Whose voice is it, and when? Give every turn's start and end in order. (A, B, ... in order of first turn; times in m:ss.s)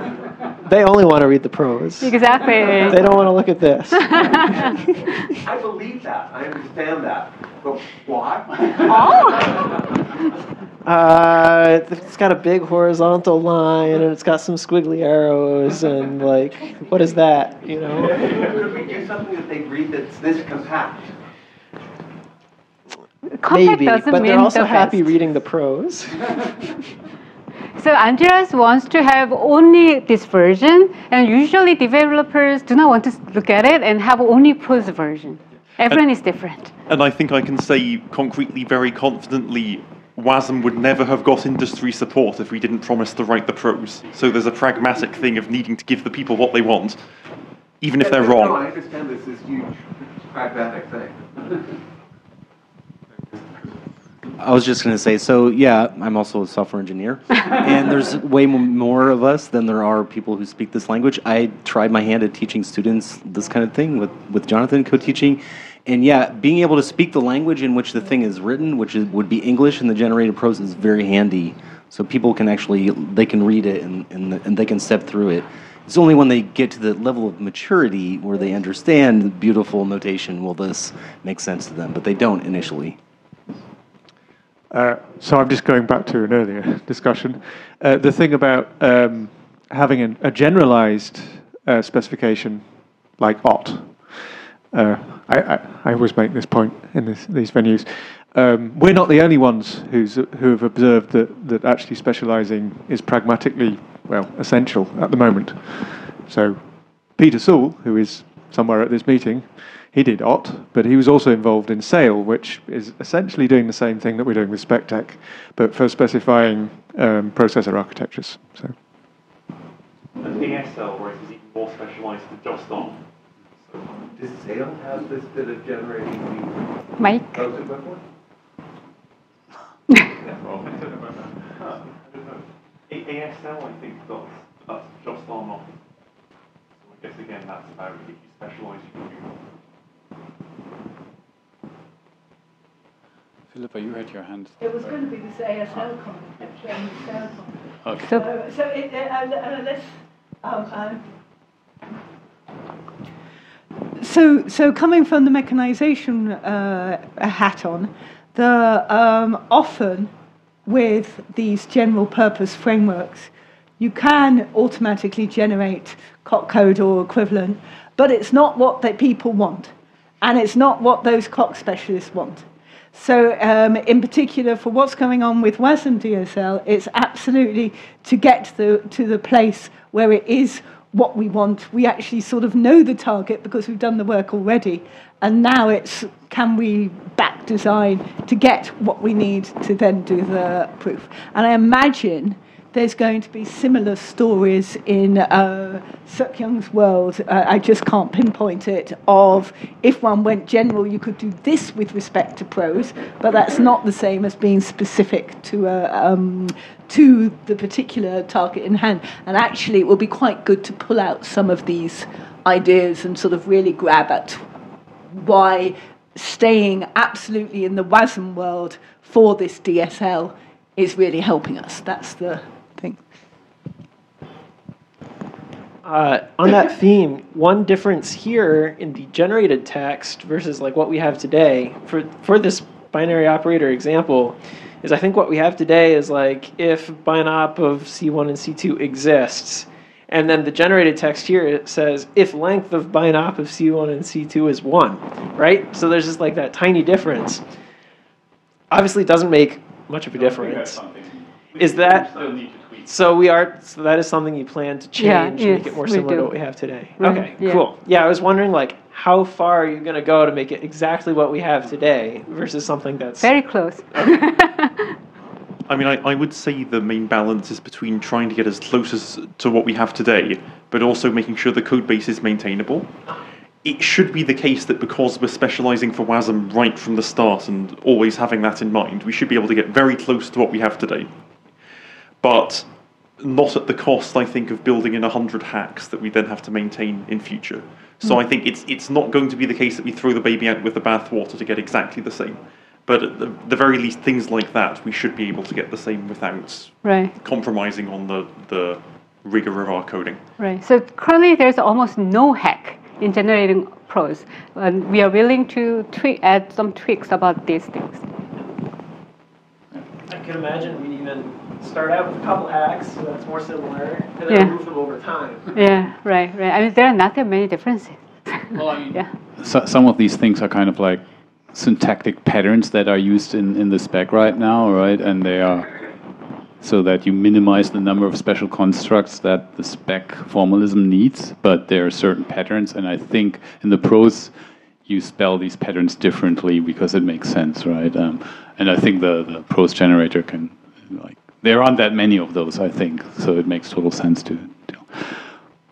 0:00.6-0:02.2 A
0:02.0-0:03.0 B
0:02.7-0:04.7 A
0:04.1-0:04.8 B
0:05.4-0:09.6 C
0:09.0-0:09.5 B
0:10.8-0:18.5 A
0:18.1-0:21.1 C
0:23.3-0:25.1 B
0:23.5-0:26.3 A
0:27.8-0:36.7 B
0:36.9-0:47.0 D
0:47.8-0:48.6 D
0:48.0-0:51.4 C
0:54.4-1:23.0 E
1:24.7-1:58.8 F
2:00.2-2:03.0 D
2:03.6-2:03.9 D
2:04.2-2:06.6 C
2:07.0-2:07.4 B
2:07.3-2:08.0 C
2:10.2-2:15.7 D
2:16.8-2:19.4 D
2:23.5-2:25.0 G
2:24.6-2:27.6 H
2:27.8-2:28.1 G
2:28.1-2:31.1 H
2:34.0-2:40.1 H
2:40.7-3:34.4 H
3:35.1-3:43.0 H
3:45.8-4:07.4 A
4:08.7-4:10.8 A
4:10.1-4:12.9 G
4:11.6-4:24.2 A
4:15.0-4:16.4 B
4:17.0-4:17.6 B
4:23.2-4:25.0 B
4:25.7-4:32.9 D
4:33.6-4:41.1 D
4:42.2-5:00.2 D
4:56.8-4:57.1 B
5:00.4-5:08.0 B
5:10.1-5:15.5 A
5:15.5-5:19.1 B
5:18.5-5:25.8 G
5:26.6-5:34.4 G
5:34.9-5:45.3 G